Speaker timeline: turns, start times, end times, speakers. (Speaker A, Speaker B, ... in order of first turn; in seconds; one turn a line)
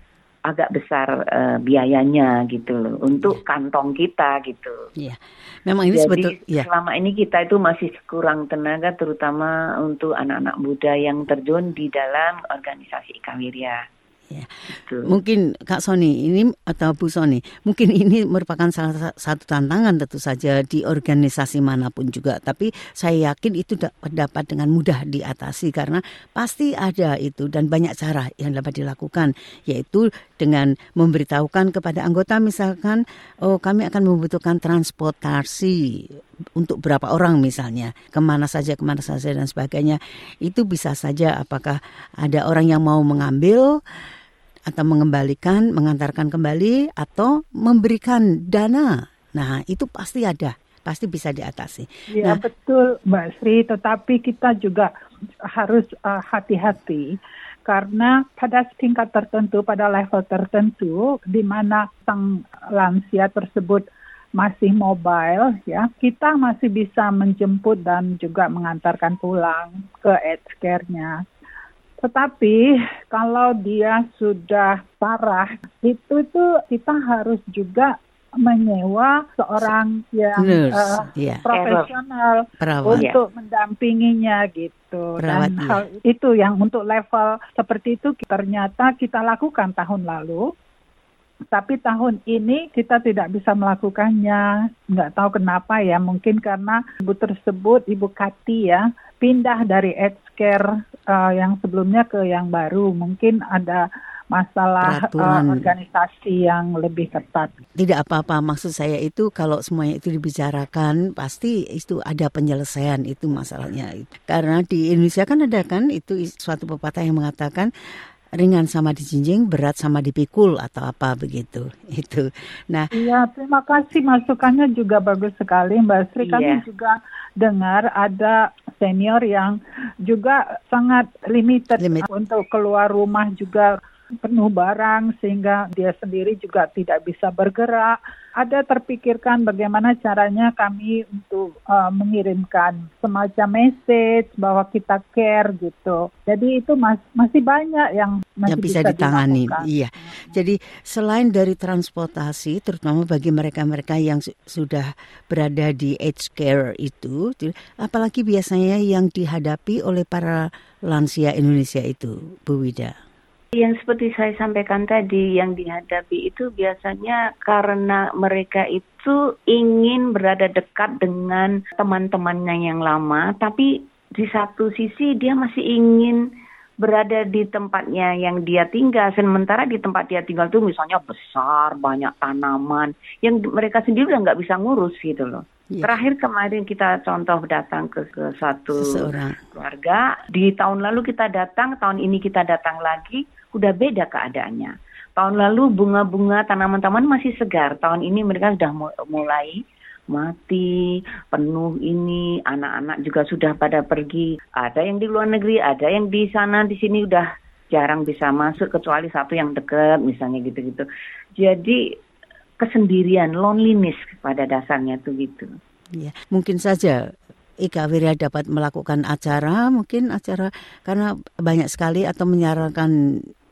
Speaker A: 0.5-4.8
Speaker B: 5.0-6.7
Speaker A: 5.9-13.8
Speaker B: 14.3-43.8
Speaker A: 14.7-15.2
Speaker B: 44.7-52.4
Speaker C: 52.1-54.9
Speaker C: 55.5-57.1
Speaker C: 57.7-63.8
Speaker C: 64.4-71.2
Speaker C: 72.0-90.4
Speaker B: 80.4-81.5
Speaker A: 81.5-81.9
Speaker B: 82.6-83.0
Speaker A: 82.9-83.2
Speaker B: 85.2-85.8
Speaker C: 91.5-107.6
Speaker B: 104.8-105.7
Speaker B: 107.8-117.7
Speaker B: 118.4-122.9
Speaker C: 122.9-133.7
Speaker A: 126.2-126.6
Speaker B: 131.8-132.1
Speaker C: 134.2-150.3
Speaker B: 148.5-162.9
Speaker A: 163.5-176.2
Speaker A: 176.8-199.6
Speaker B: 185.7-186.0
Speaker B: 188.7-189.4
Speaker A: 200.1-210.8
Speaker A: 211.4-211.8
Speaker A: 212.6-215.5
Speaker B: 216.0-217.0
Speaker B: 217.6-222.9